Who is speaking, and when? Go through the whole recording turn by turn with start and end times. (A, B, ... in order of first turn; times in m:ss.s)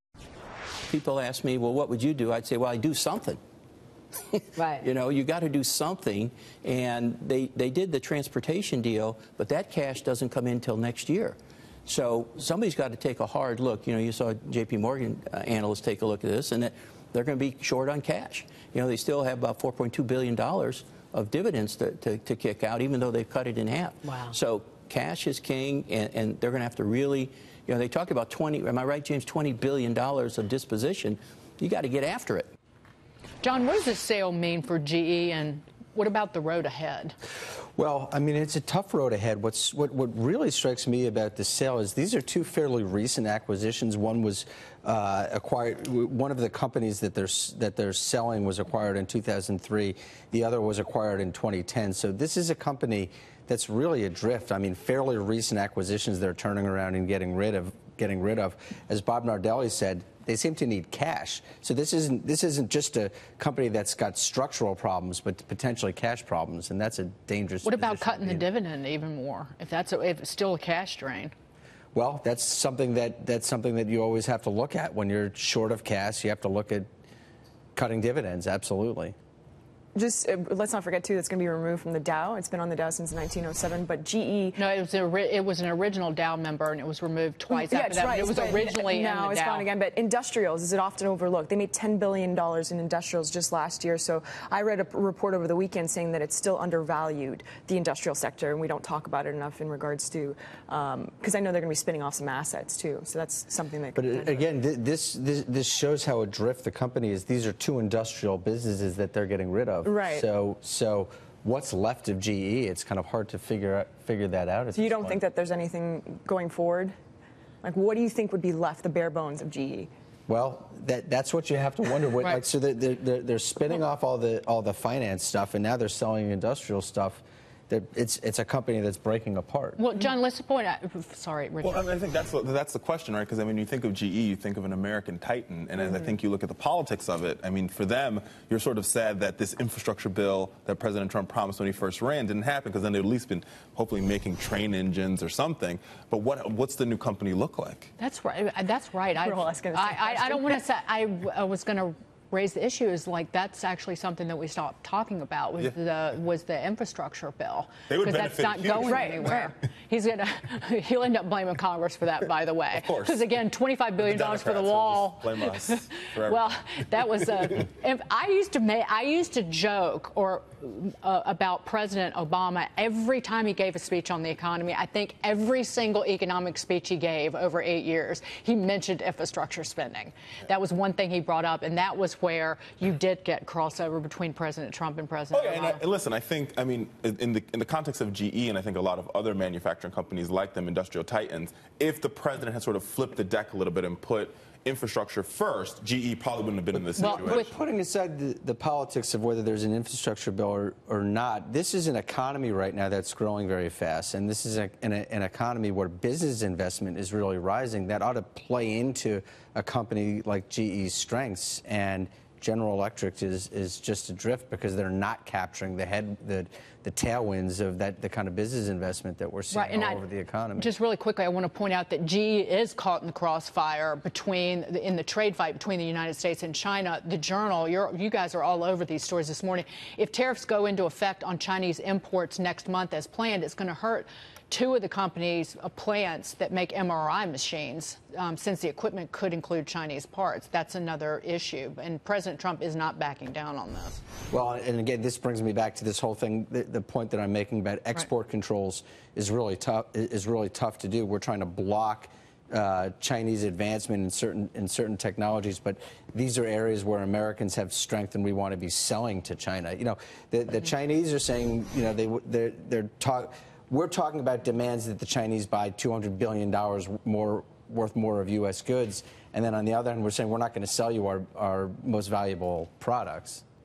0:00.9-0:03.4 A
0:04.3-0:32.5 A
0:33.4-0:37.2 B
0:37.8-1:08.4 C
1:07.6-1:11.3 B
1:11.9-1:16.9 C
1:17.8-1:19.2 C
1:20.0-1:24.6 D
1:24.6-1:29.7 B
1:27.5-1:44.4 D
1:44.0-1:55.2 C
1:49.8-1:50.3 D
1:54.8-1:56.9 D
1:57.6-1:59.9 D
2:00.3-2:09.8 C
2:09.8-2:11.9 B
2:11.6-2:27.9 E
2:28.0-3:05.8 B
2:29.2-2:30.6 D
2:37.9-2:39.5 E
2:38.8-2:39.5 D
2:42.7-2:43.2 E
2:44.0-2:47.2 E
3:05.3-3:17.5 E
3:16.7-3:40.7 C
3:17.0-3:17.5 B
3:39.5-3:40.0 B
3:40.6-4:04.0 B
4:04.3-4:33.4 C